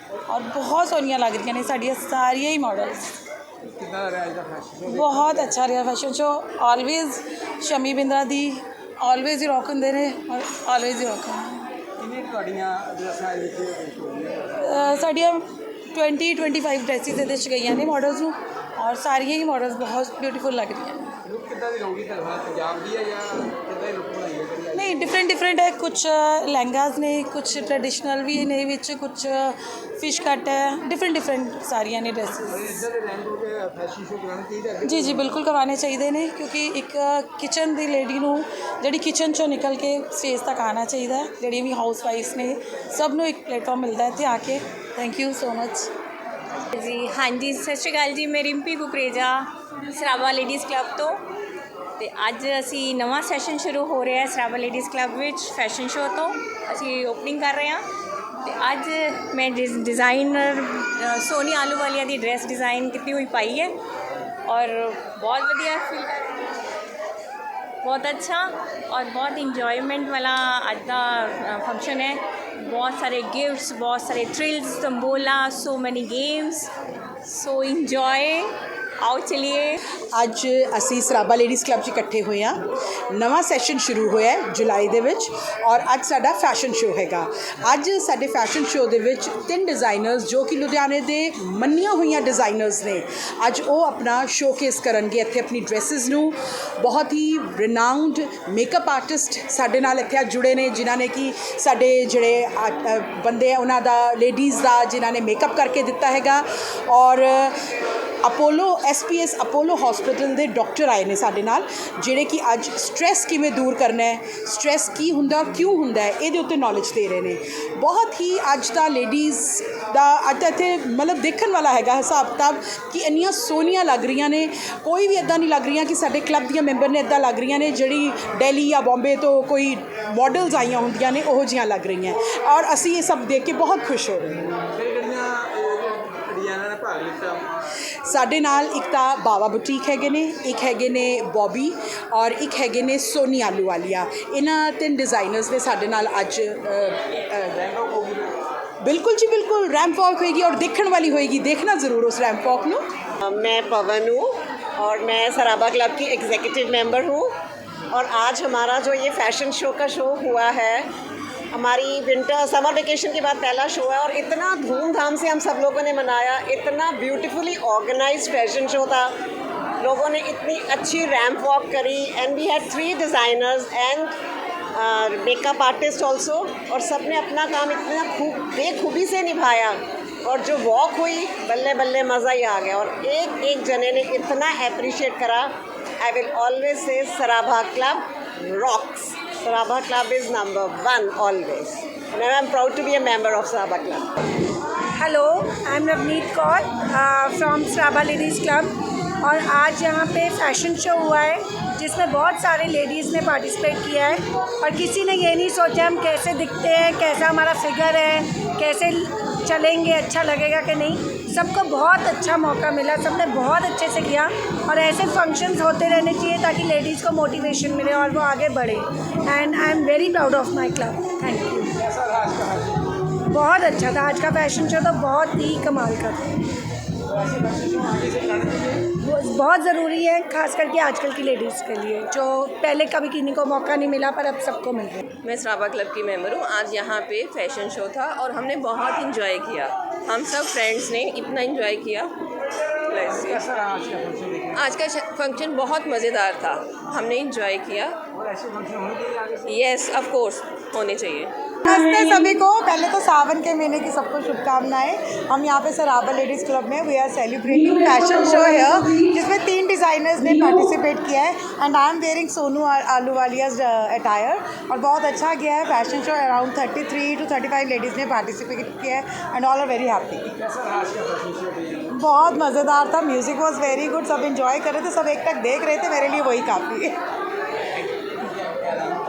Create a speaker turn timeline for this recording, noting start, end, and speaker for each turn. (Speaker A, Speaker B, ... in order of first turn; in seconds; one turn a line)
Speaker A: 0.3-3.1
Speaker B: 3.6-5.5
Speaker A: 4.9-11.7
Speaker B: 12.0-14.7
Speaker A: 14.6-21.1
Speaker B: 21.2-25.1
Speaker A: 24.7-32.6
Speaker B: 32.5-35.2
Speaker A: 34.8-45.9
Speaker C: 46.7-51.2
Speaker C: 52.0-57.8
Speaker C: 58.4-63.7
Speaker C: 64.5-66.3
Speaker C: 67.8-76.7
Speaker C: 77.2-79.8
Speaker D: 80.1-134.5
Speaker B: 134.6-137.6
Speaker D: 138.0-147.6
Speaker B: 147.6-148.3
Speaker D: 148.8-152.8
Speaker E: 153.2-157.3
Speaker E: 157.9-160.8
Speaker E: 161.5-169.1
Speaker E: 169.8-174.1
Speaker E: 174.8-185.5
Speaker E: 186.0-194.1
Speaker F: 194.9-221.7
Speaker B: 221.8-222.8
Speaker F: 223.3-226.3
Speaker B: 227.1-228.9
Speaker F: 228.9-235.0
Speaker G: 235.2-242.1
Speaker G: 242.9-243.4
Speaker B: 243.1-244.7
Speaker G: 244.6-248.0
Speaker B: 248.1-249.6
Speaker G: 249.5-251.3
Speaker H: 251.6-270.3
Speaker A: 251.7-252.2
Speaker A: 257.5-259.1
Speaker B: 270.3-271.9
Speaker H: 271.9-276.9
Speaker B: 278.4-279.0